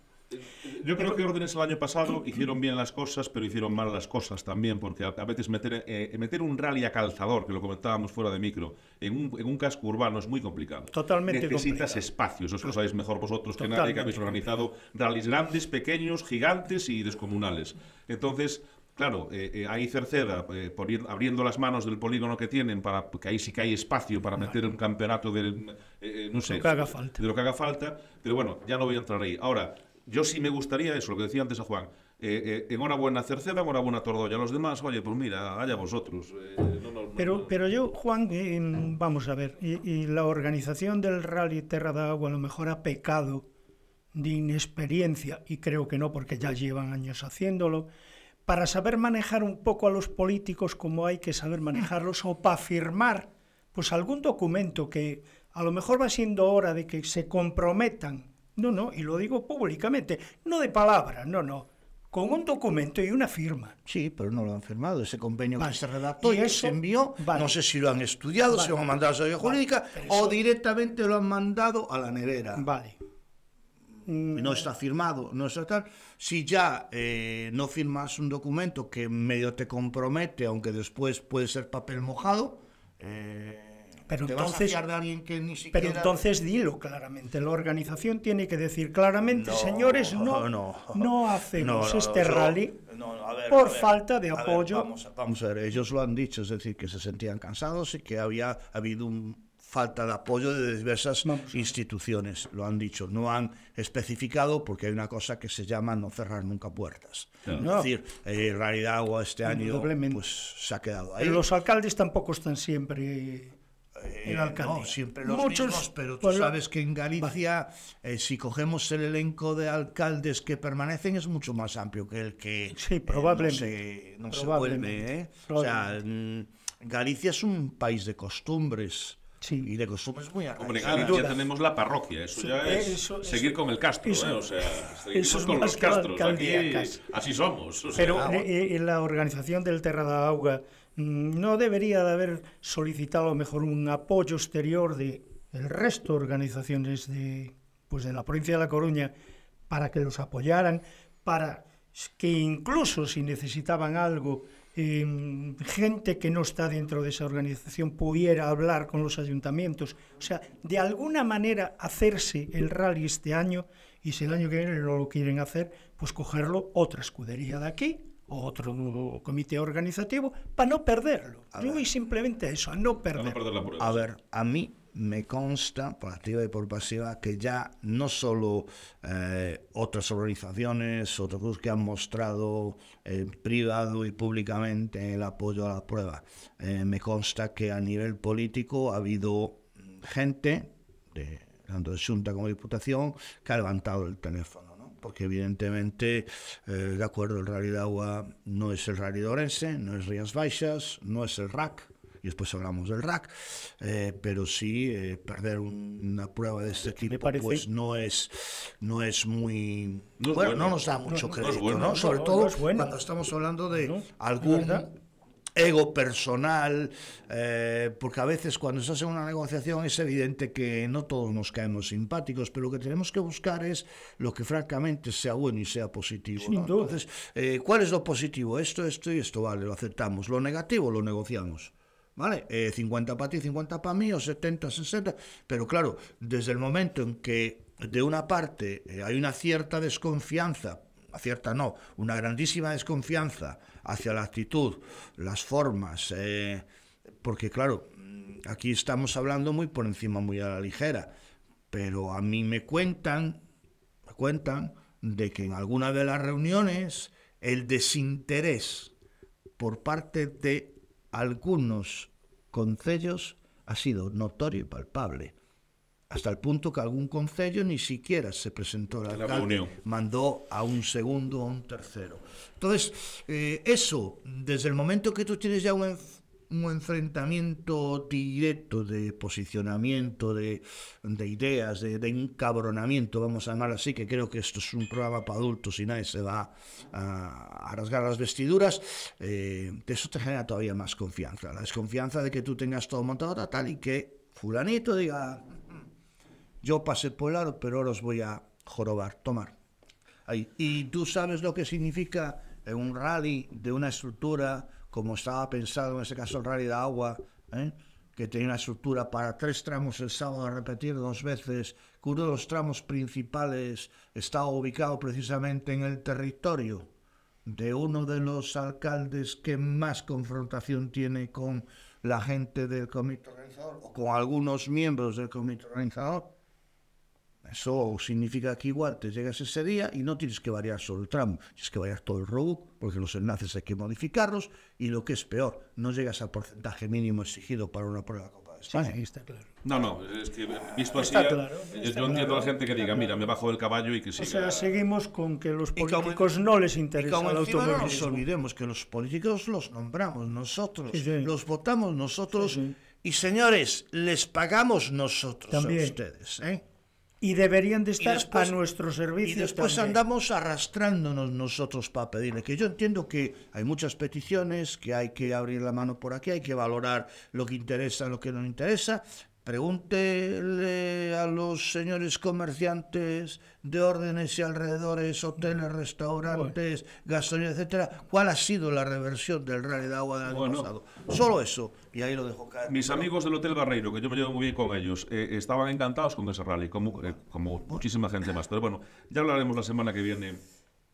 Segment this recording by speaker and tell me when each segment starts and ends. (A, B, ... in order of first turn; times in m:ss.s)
0:00.3-0:37.5 A
0:10.9-0:12.0 B
0:13.6-0:14.4 B
0:26.4-0:27.2 B
0:37.2-0:43.5 B
0:44.2-0:47.9 B
0:48.5-1:03.8 B
1:03.9-1:12.7 C
1:05.6-1:07.6 B
1:08.5-1:10.4 B
1:12.6-1:13.0 B
1:14.1-1:14.7 B
1:14.3-1:26.2 C
1:24.1-1:24.8 B
1:25.7-1:32.8 B
1:29.3-1:51.4 C
1:33.5-1:34.9 B
1:41.2-1:41.7 B
1:47.5-1:47.9 B
1:49.5-1:50.2 B
1:51.2-1:53.6 B
1:54.0-2:11.3 C
1:54.2-1:56.5 B
2:02.8-2:03.7 B
2:04.3-2:05.8 B
2:09.4-2:09.7 B
2:10.6-2:18.3 A
2:10.8-2:11.4 B
2:12.4-2:17.0 B
2:18.0-2:29.1 B
2:18.1-2:18.5 C
2:29.7-2:53.4 B
2:51.5-2:51.9 C
2:53.1-2:54.1 A
2:53.8-3:34.9 C
3:27.1-3:27.6 B
3:30.2-3:30.8 A
3:31.1-3:33.0 B
3:31.4-3:32.1 A
3:33.8-3:34.8 B
3:35.6-4:06.7 C
3:46.4-3:47.0 B
4:07.2-4:11.1 C
4:11.7-4:13.4 C
4:14.1-4:18.9 C
4:19.6-4:25.4 C
4:26.1-4:55.8 C
4:29.1-4:29.7 A
4:56.6-4:59.6 C
5:00.3-5:16.9 C
5:17.5-5:26.3 C
5:27.4-5:38.9 C
5:38.7-5:39.5 B
5:39.6-5:44.7 A
5:40.9-5:43.1 B
5:44.2-5:48.2 B
5:45.8-5:46.3 C
5:47.0-5:56.6 C
5:50.9-5:51.3 B
5:52.4-5:52.8 B
5:55.5-5:56.0 B
5:57.2-6:00.0 B
5:58.0-5:58.6 C
5:59.2-6:23.1 C
6:20.3-6:20.7 A
6:22.7-6:30.4 A